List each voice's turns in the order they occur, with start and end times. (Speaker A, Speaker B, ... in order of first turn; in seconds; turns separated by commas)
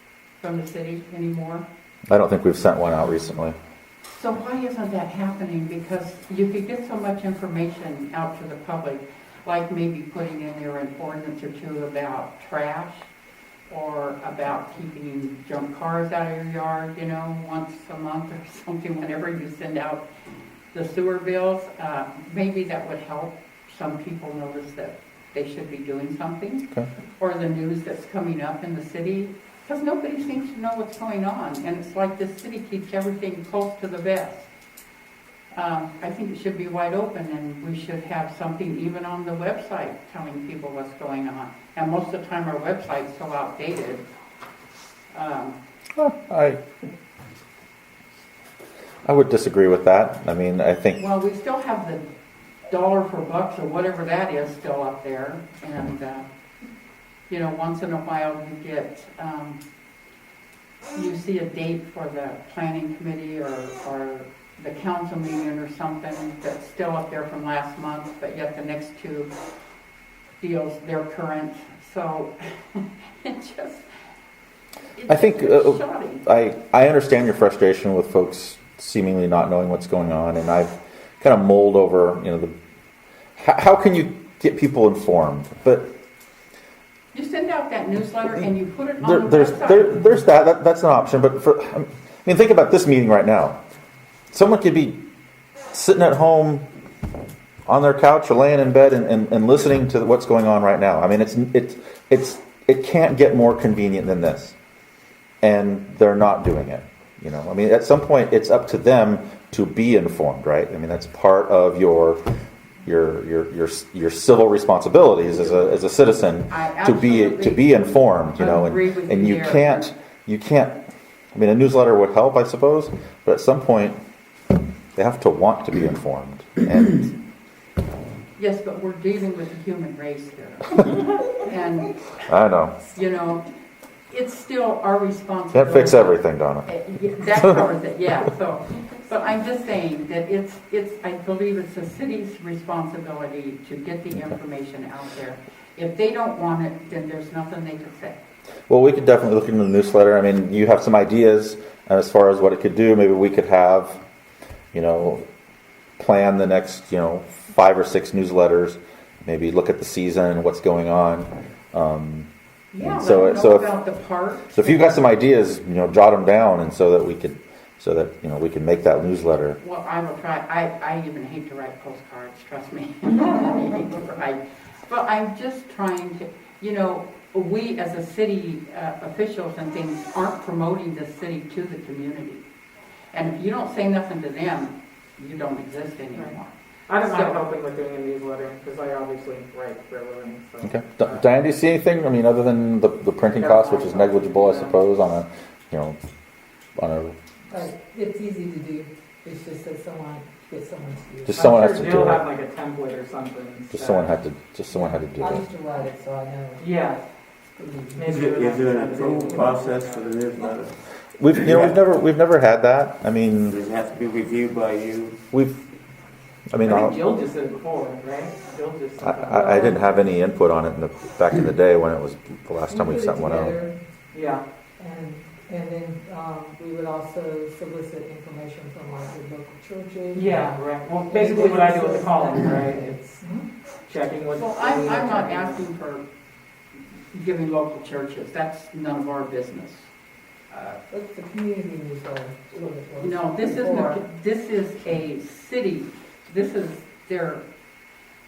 Speaker A: 0.4-1.6, Speaker B: 2.1-3.5, Speaker A: 4.1-13.1, Speaker A: 13.7-20.0, Speaker A: 20.7-34.5, Speaker A: 35.5-44.0, Speaker A: 45.1-45.6, Speaker B: 46.0-46.6, Speaker B: 49.0-51.0, Speaker A: 51.0-52.0, Speaker A: 52.7-56.2, Speaker A: 57.3-59.6, Speaker A: 60.9-69.3, Speaker A: 70.4-73.8, Speaker A: 75.0-76.2, Speaker B: 75.1-82.5, Speaker B: 83.4-85.9, Speaker A: 87.1-90.0, Speaker B: 89.0-93.6, Speaker B: 94.3-95.0, Speaker B: 95.7-96.6, Speaker B: 97.7-104.5, Speaker B: 105.4-112.2, Speaker B: 112.8-120.8, Speaker A: 115.5-115.8, Speaker A: 116.5-117.8, Speaker A: 118.3-119.9, Speaker B: 121.3-124.0, Speaker B: 125.0-127.1, Speaker A: 128.4-131.9, Speaker B: 132.3-132.8, Speaker A: 132.9-133.4, Speaker A: 134.1-148.2, Speaker B: 135.5-136.7, Speaker B: 148.7-154.0, Speaker B: 154.7-155.2, Speaker B: 156.0-162.3, Speaker A: 162.7-164.9, Speaker B: 162.8-163.7, Speaker B: 164.5-169.6, Speaker A: 169.6-182.4, Speaker A: 183.1-187.4, Speaker C: 186.9-191.2, Speaker B: 190.6-196.0, Speaker C: 193.3-194.8, Speaker B: 196.8-197.1, Speaker D: 197.5-201.5, Speaker B: 201.2-202.2, Speaker C: 201.3-204.2, Speaker B: 203.7-205.4, Speaker D: 204.7-206.7, Speaker C: 206.6-207.0, Speaker D: 207.5-208.1, Speaker C: 207.9-210.1, Speaker E: 208.0-210.7, Speaker D: 209.2-209.5, Speaker B: 211.2-213.6, Speaker E: 211.3-211.8, Speaker E: 213.5-215.2, Speaker B: 215.3-215.6, Speaker B: 216.5-217.0, Speaker C: 216.6-219.9, Speaker B: 219.0-223.5, Speaker D: 222.7-223.8, Speaker C: 224.1-224.4, Speaker D: 224.8-233.4, Speaker C: 230.1-233.0, Speaker C: 233.9-235.6, Speaker A: 234.3-236.0, Speaker A: 237.1-239.9, Speaker D: 240.6-244.0, Speaker A: 243.0-247.4